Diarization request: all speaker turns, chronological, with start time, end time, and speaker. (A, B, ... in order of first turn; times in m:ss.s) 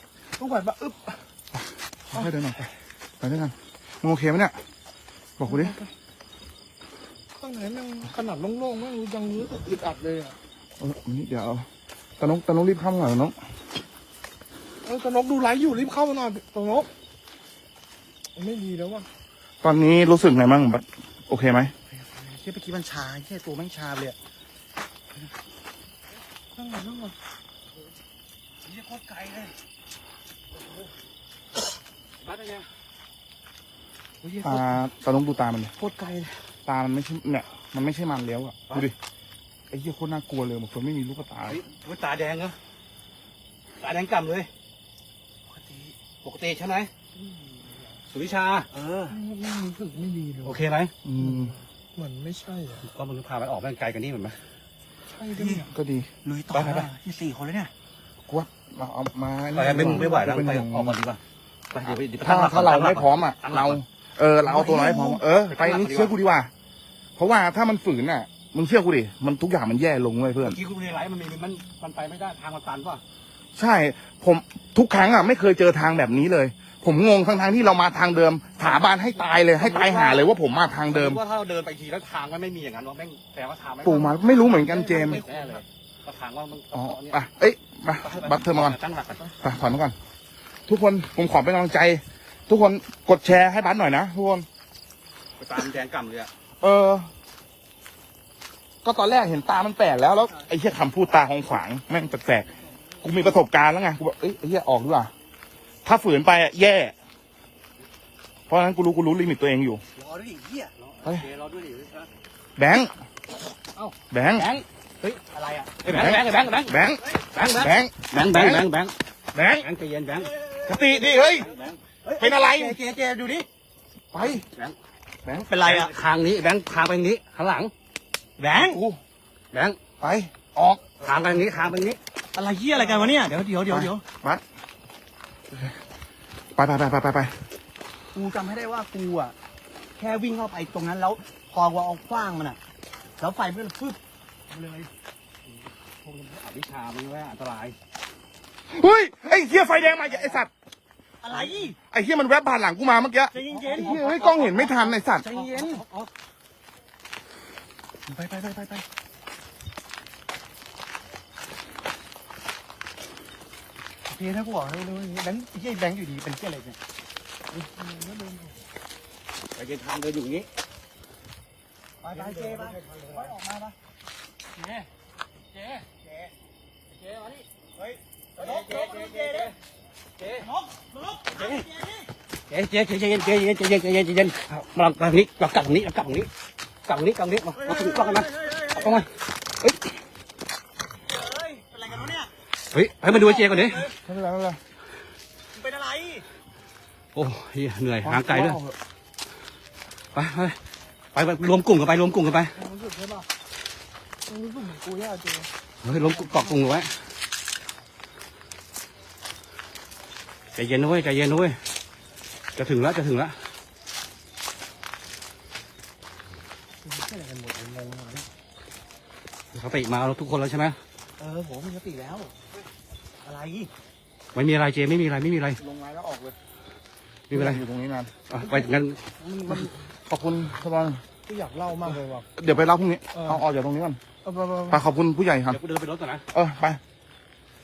0:00.4-0:01.2 A
0:02.1-0:04.6 B
0:05.4-0:05.8 B
0:05.4-0:05.9 A
0:07.4-0:10.4 A
0:10.8-0:11.7 B
0:12.2-0:13.4 B
0:14.8-0:16.9 A
0:18.4-0:19.1 A
0:19.6-0:21.7 B
0:22.0-0:24.2 C
0:26.6-0:27.2 A
0:28.7-0:29.5 D
0:32.2-0:32.7 D
0:34.2-0:34.7 A
0:34.4-0:35.7 B
0:35.8-0:36.3 C
0:36.7-0:39.0 B
0:39.7-0:41.6 B
0:41.5-0:42.6 D
0:43.8-0:44.5 D
0:45.6-0:45.9 C
0:46.2-0:46.9 D
0:47.2-0:48.0 A
0:48.1-0:48.7 D
0:48.7-0:49.2 C
0:49.1-0:50.6 A
0:50.4-0:50.9 D
0:51.0-0:51.6 B
0:51.2-0:52.9 A
0:52.8-0:54.4 D
0:55.1-0:55.7 A
0:55.4-0:55.7 C
0:55.5-0:56.1 B
0:56.2-0:57.7 C
0:56.5-0:56.9 D
0:58.3-1:01.0 B
0:59.5-1:01.2 D
1:01.7-1:03.8 D
1:01.9-1:06.5 B
1:04.4-1:05.2 C
1:05.5-1:06.1 D
1:07.2-1:10.6 B
1:10.4-1:13.0 D
1:13.6-1:21.2 B
1:19.6-1:20.3 D
1:20.9-1:27.2 D
1:23.8-1:25.2 B
1:23.9-1:25.6 A
1:26.7-1:28.8 B
1:28.0-1:29.3 D
1:29.4-1:30.0 B
1:30.7-1:34.5 B
1:35.4-1:36.3 D
1:36.6-1:37.1 B
1:38.8-1:42.5 B
1:43.0-1:45.1 B
1:45.8-1:46.9 B
1:48.5-1:49.8 B
1:50.0-1:50.7 C
1:51.0-1:52.1 D
1:52.6-1:52.9 B
1:53.8-1:55.2 D
1:54.1-1:54.5 B
1:55.3-1:55.7 C
1:55.8-1:58.9 D
1:55.9-1:58.7 B
1:59.4-1:59.7 B
1:59.6-2:00.4 D
2:00.4-2:00.9 C
2:00.6-2:01.5 B
2:01.2-2:01.8 D
2:02.0-2:03.5 C
2:02.2-2:02.8 B
2:04.1-2:04.4 B
2:04.4-2:04.8 D
2:05.3-2:05.9 C
2:05.6-2:07.7 D
2:08.4-2:08.8 C
2:08.6-2:09.0 B
2:09.5-2:09.8 D
2:10.0-2:10.6 B
2:10.8-2:12.0 D
2:12.3-2:14.0 C
2:13.7-2:14.4 B
2:16.6-2:17.3 B
2:18.2-2:19.4 C
2:20.0-2:22.6 C
2:23.2-2:24.0 C
2:24.5-2:24.9 C
2:26.0-2:27.8 D
2:28.7-2:30.5 B
2:30.1-2:30.4 D
2:31.2-2:31.8 C
2:31.9-2:35.4 B
2:33.3-2:34.1 C
2:33.4-2:36.1 D
2:35.3-2:35.8 C
2:44.1-2:46.8 C
2:47.7-2:48.5 A
2:49.6-2:50.5 D
2:52.0-2:53.8 C
2:52.1-2:53.3 D
2:54.6-2:54.9 D
2:55.6-2:55.8 D
2:56.0-2:56.3 C
2:56.9-2:57.4 D
2:57.8-2:59.5 C
2:58.4-2:59.5 D
3:00.4-3:02.1 C
3:01.4-3:01.6 D
3:02.5-3:06.3 D
3:06.8-3:09.1 D
3:07.6-3:09.0 C
3:11.1-3:12.3 C
3:12.7-3:13.9 D
3:13.1-3:13.9 C
3:14.0-3:14.6 B
3:15.6-3:16.2 C
3:17.2-3:18.6 D
3:18.0-3:18.8 B
3:20.1-3:20.6 D
3:21.1-3:22.6 D
3:22.6-3:23.3 A
3:24.3-3:25.5 A
3:25.8-3:26.9 D
3:30.6-3:31.6 D
3:32.6-3:33.4 D
3:36.9-3:38.2 A
3:39.5-3:40.8 D
3:41.2-3:42.3 C
3:43.2-3:43.7 C
3:44.4-3:45.6 D
3:45.6-3:46.3 C
3:47.3-3:47.6 D
3:47.3-3:48.1 B
3:48.3-3:49.0 D
3:48.4-3:49.7 A
3:49.5-3:51.0 B
3:51.3-3:52.3 A
3:52.4-3:54.0 B
3:53.1-3:53.4 A
3:54.2-3:54.8 A
3:54.7-3:55.6 B
3:55.5-3:56.2 D
3:56.3-3:56.8 B